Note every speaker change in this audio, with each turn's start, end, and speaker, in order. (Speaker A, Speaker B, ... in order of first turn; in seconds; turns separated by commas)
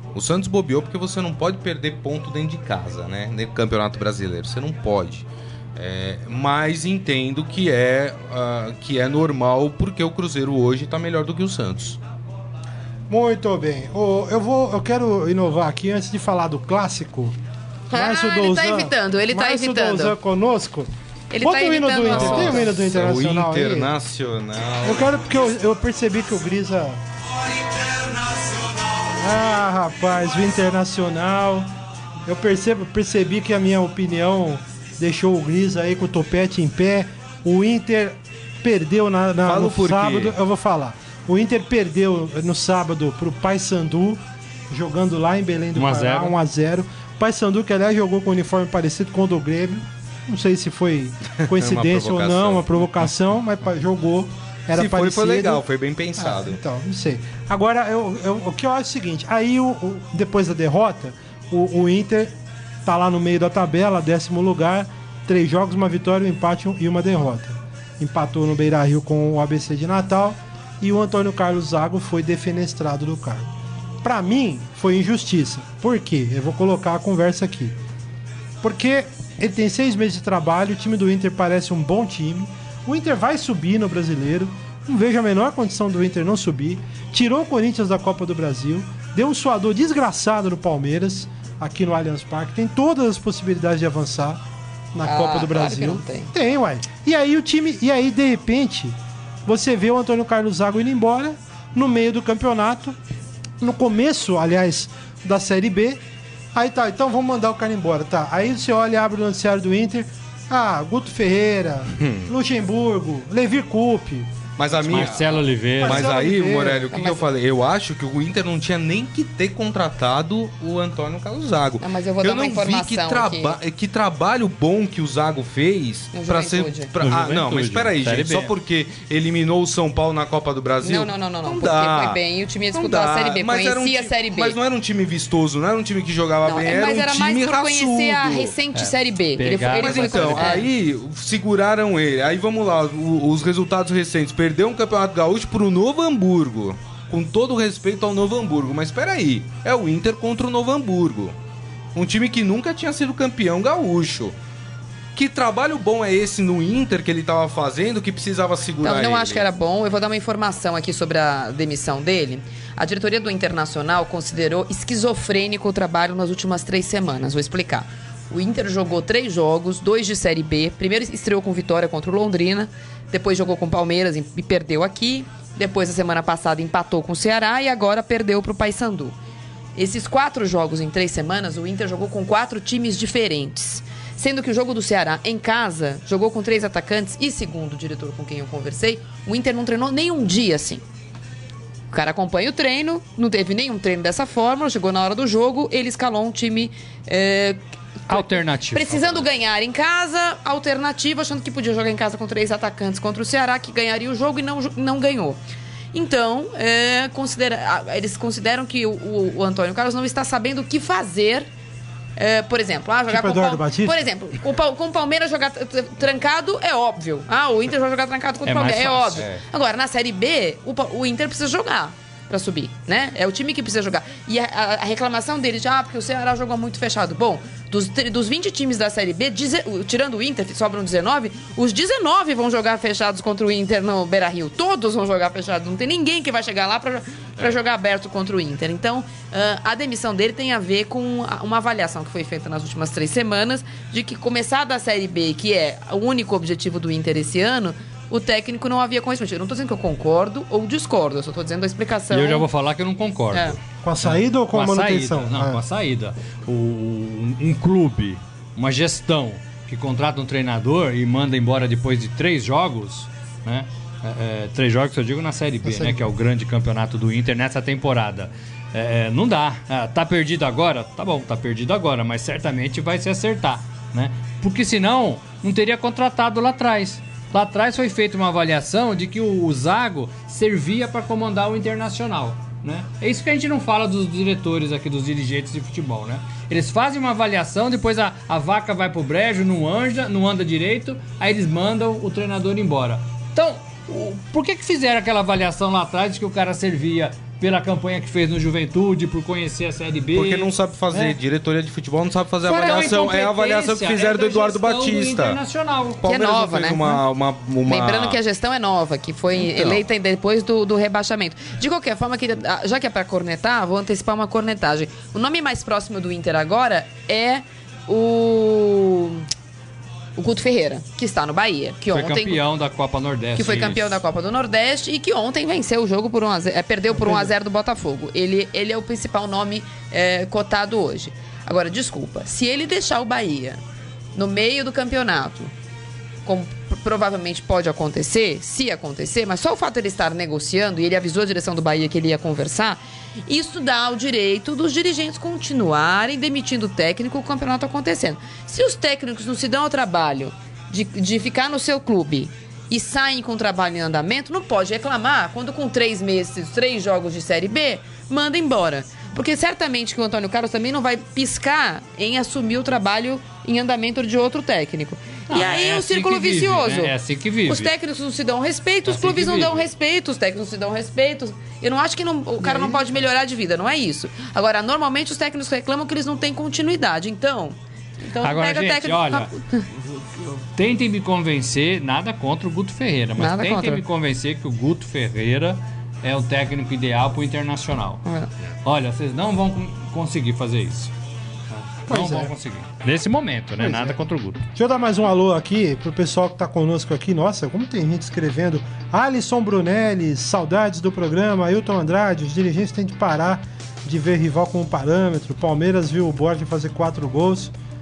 Speaker A: 0.1-12.0, Speaker B: 13.1-17.4, Speaker C: 17.9-20.1, Speaker B: 17.9-20.9, Speaker C: 21.3-22.7, Speaker B: 21.4-23.9, Speaker A: 22.1-25.3, Speaker B: 24.8-27.0, Speaker B: 29.2-31.7, Speaker B: 32.3-55.6, Speaker A: 39.5-40.4, Speaker D: 45.8-46.4, Speaker A: 51.4-53.1, Speaker A: 54.7-56.6, Speaker B: 56.2-62.3, Speaker B: 62.9-73.5, Speaker B: 74.0-77.8, Speaker B: 78.6-94.4, Speaker B: 94.9-99.0, Speaker C: 95.0-96.3, Speaker B: 99.5-103.0, Speaker B: 103.6-106.0, Speaker B: 106.5-114.3, Speaker A: 112.0-112.3, Speaker A: 114.6-132.2, Speaker D: 114.8-116.1, Speaker B: 115.8-117.2, Speaker C: 116.9-117.2, Speaker C: 121.8-123.6, Speaker C: 126.1-126.9, Speaker D: 127.0-128.6, Speaker C: 130.8-134.6, Speaker A: 132.7-138.5, Speaker C: 136.4-140.7, Speaker D: 138.7-140.6, Speaker A: 139.7-151.3, Speaker A: 151.9-154.3, Speaker A: 155.2-159.4, Speaker C: 158.8-179.2, Speaker C: 179.8-190.8, Speaker C: 191.9-197.6, Speaker D: 198.1-199.2, Speaker C: 198.1-205.4, Speaker C: 205.9-211.5, Speaker C: 212.2-252.5, Speaker B: 213.1-214.0, Speaker D: 218.5-219.3, Speaker D: 252.1-300.5, Speaker C: 253.3-253.6, Speaker B: 253.8-255.6, Speaker B: 265.6-266.1, Speaker A: 300.1-305.4, Speaker B: 300.9-301.2, Speaker D: 302.4-306.0, Speaker C: 302.6-303.0, Speaker A: 306.0-308.2, Speaker C: 306.1-307.0, Speaker C: 307.7-319.3, Speaker A: 309.4-309.8, Speaker C: 320.2-322.4, Speaker D: 321.9-324.0, Speaker C: 323.4-333.6, Speaker B: 326.9-327.3, Speaker C: 334.2-335.5, Speaker C: 336.3-366.9, Speaker D: 365.3-367.7, Speaker C: 367.5-379.7, Speaker D: 368.9-369.6, Speaker B: 372.4-373.0, Speaker D: 378.2-379.3, Speaker D: 379.9-388.0, Speaker C: 383.2-383.8, Speaker C: 388.1-388.3, Speaker D: 388.6-390.9, Speaker D: 391.5-394.4, Speaker B: 391.9-392.3, Speaker B: 393.6-394.0, Speaker B: 394.6-407.5